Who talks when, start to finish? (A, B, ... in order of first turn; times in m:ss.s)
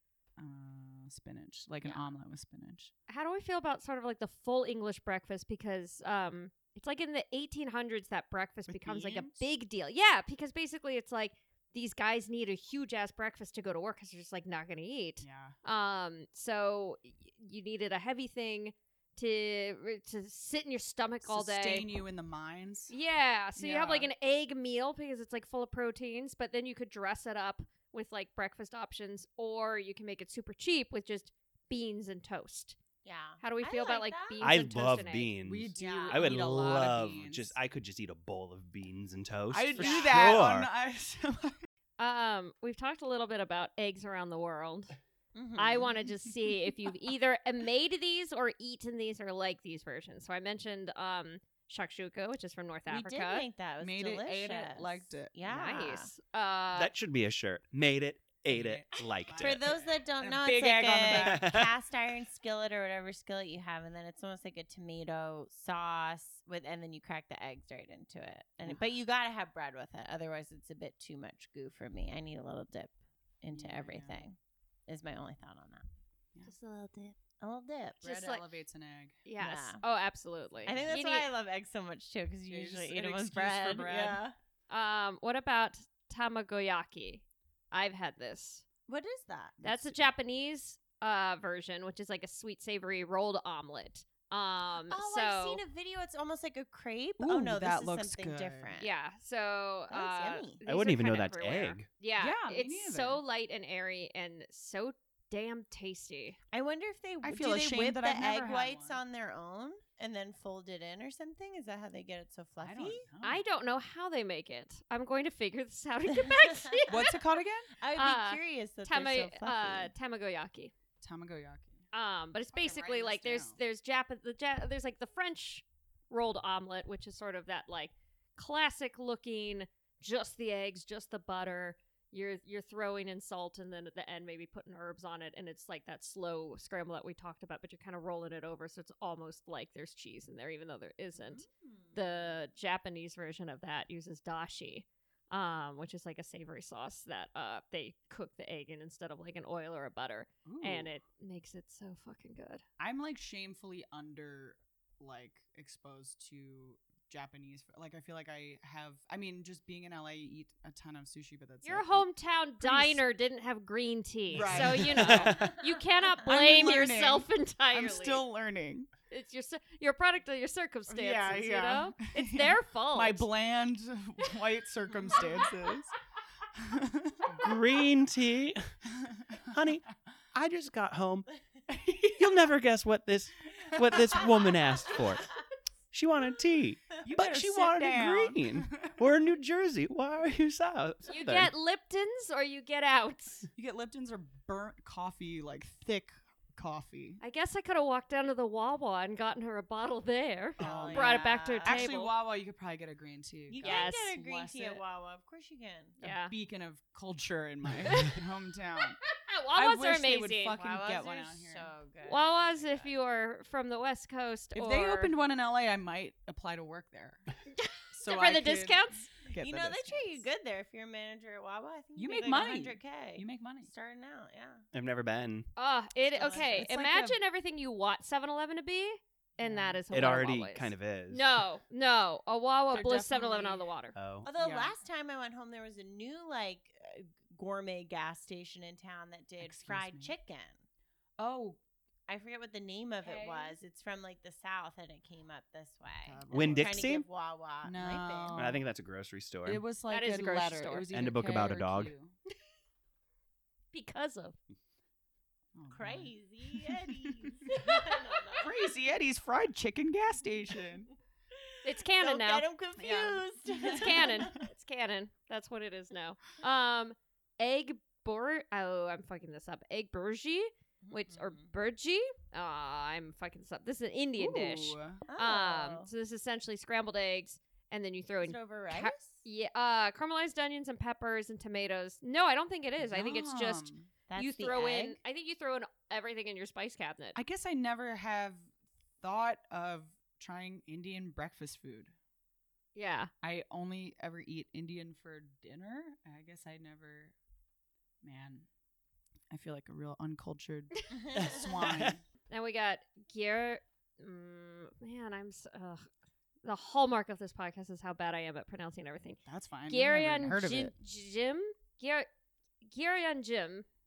0:00.4-0:02.9 A
0:01.8-0:02.1 B
0:03.1-0:22.0 C
0:08.7-0:09.4 A
0:15.2-0:15.6 A
0:21.2-0:22.9 A
0:22.9-0:32.8 C
0:23.6-0:24.1 A
0:33.0-0:34.5 B
0:33.4-0:35.3 C
0:34.4-0:40.7 D
0:35.4-0:37.6 A
0:35.8-0:36.4 B
0:39.5-0:41.6 A
0:39.7-0:40.4 B
0:42.0-0:45.0 C
0:45.3-0:46.1 B
0:45.6-0:53.5 C
0:52.9-0:56.1 B
0:53.8-0:55.3 A
0:55.4-0:56.9 C
0:56.7-0:59.6 D
0:58.5-1:01.5 A
0:59.4-1:15.8 B
1:01.1-1:01.7 D
1:13.5-1:14.2 A
1:16.4-1:17.1 C
1:17.4-1:18.0 B
1:18.0-1:18.4 C
1:18.0-1:19.2 A
1:19.2-1:21.3 C
1:19.4-1:19.8 B
1:20.6-1:24.4 B
1:20.6-1:20.9 A
1:22.5-1:24.2 A
1:24.7-1:28.6 C
1:28.9-1:29.6 B
1:29.6-1:35.6 C
1:29.6-1:30.0 A
1:34.9-1:38.9 B
1:37.2-1:38.7 A
1:38.8-1:46.4 C
1:39.9-1:40.6 B
1:40.6-1:41.9 D
1:42.2-1:43.2 A
1:46.5-1:53.1 B
1:47.2-1:49.0 A
1:52.6-1:53.4 A
1:53.2-1:57.1 C
1:56.1-1:59.9 B
1:56.9-1:57.7 A
1:57.9-2:00.7 C
2:01.0-2:01.8 A
2:01.9-2:32.6 C
2:02.5-2:03.6 A
2:21.1-2:22.4 B
2:30.4-2:30.9 A
2:32.8-2:42.1 A
2:41.6-2:48.2 C
2:42.6-2:43.0 A
2:44.3-2:45.5 A
2:44.3-2:45.5 D
2:46.2-2:48.9 A
2:46.5-2:46.7 B
2:49.1-2:53.3 C
2:50.9-2:55.9 A
2:56.5-2:57.5 A
2:57.4-2:58.7 D
2:59.5-3:01.3 D
3:01.7-3:02.1 A
3:02.0-3:05.3 D
3:05.9-3:11.5 D
3:07.0-3:09.0 A
3:11.1-3:13.5 C
3:13.5-3:17.2 A
3:17.2-3:22.1 C
3:20.6-3:21.9 B
3:20.6-3:24.8 A
3:23.5-3:26.0 B
3:23.6-3:24.1 C
3:26.0-3:26.3 C
3:26.0-3:29.0 A
3:29.0-3:30.6 C
3:29.5-3:31.7 A
3:30.6-3:32.9 B
3:32.0-3:35.1 C
3:34.5-3:37.3 A
3:37.5-3:39.1 C
3:37.9-3:40.2 A
3:39.3-3:44.6 B
3:42.0-3:43.7 A
3:44.7-3:45.5 D
3:45.6-3:53.9 C
3:46.1-3:46.7 B
3:46.2-3:47.2 A
3:49.4-3:49.8 A
3:49.9-3:51.4 D
3:52.7-3:53.7 A
3:53.9-3:54.3 D
3:54.2-4:00.6 B
3:54.4-3:54.7 A
3:59.4-4:00.1 A
4:01.2-4:01.6 A
4:02.1-4:08.6 B
4:03.0-4:03.6 A
4:06.0-4:06.8 A
4:06.3-4:07.0 D
4:07.6-4:08.6 A
4:08.3-4:09.6 D
4:09.4-4:12.1 A
4:09.9-4:10.9 C
4:10.9-4:11.9 D
4:13.7-4:14.4 C
4:15.5-4:17.6 A
4:15.7-4:18.6 B
4:18.4-4:20.9 A
4:21.3-4:24.4 B
4:21.6-4:22.5 C
4:22.8-4:24.4 A
4:23.6-4:47.2 C
4:30.8-4:31.5 B
4:34.2-4:35.0 A
4:35.0-4:35.9 B
4:38.2-4:39.2 B
4:42.8-4:43.9 A
4:44.1-4:45.0 B
4:47.1-4:48.5 A
4:49.0-4:51.9 A
4:52.7-4:53.1 C
4:53.2-4:57.1 A
4:58.0-4:58.5 A
4:59.3-5:02.0 A
5:01.1-5:02.0 D
5:02.3-5:05.8 C
5:06.4-5:12.1 C
5:09.2-5:10.7 A
5:12.6-5:13.6 C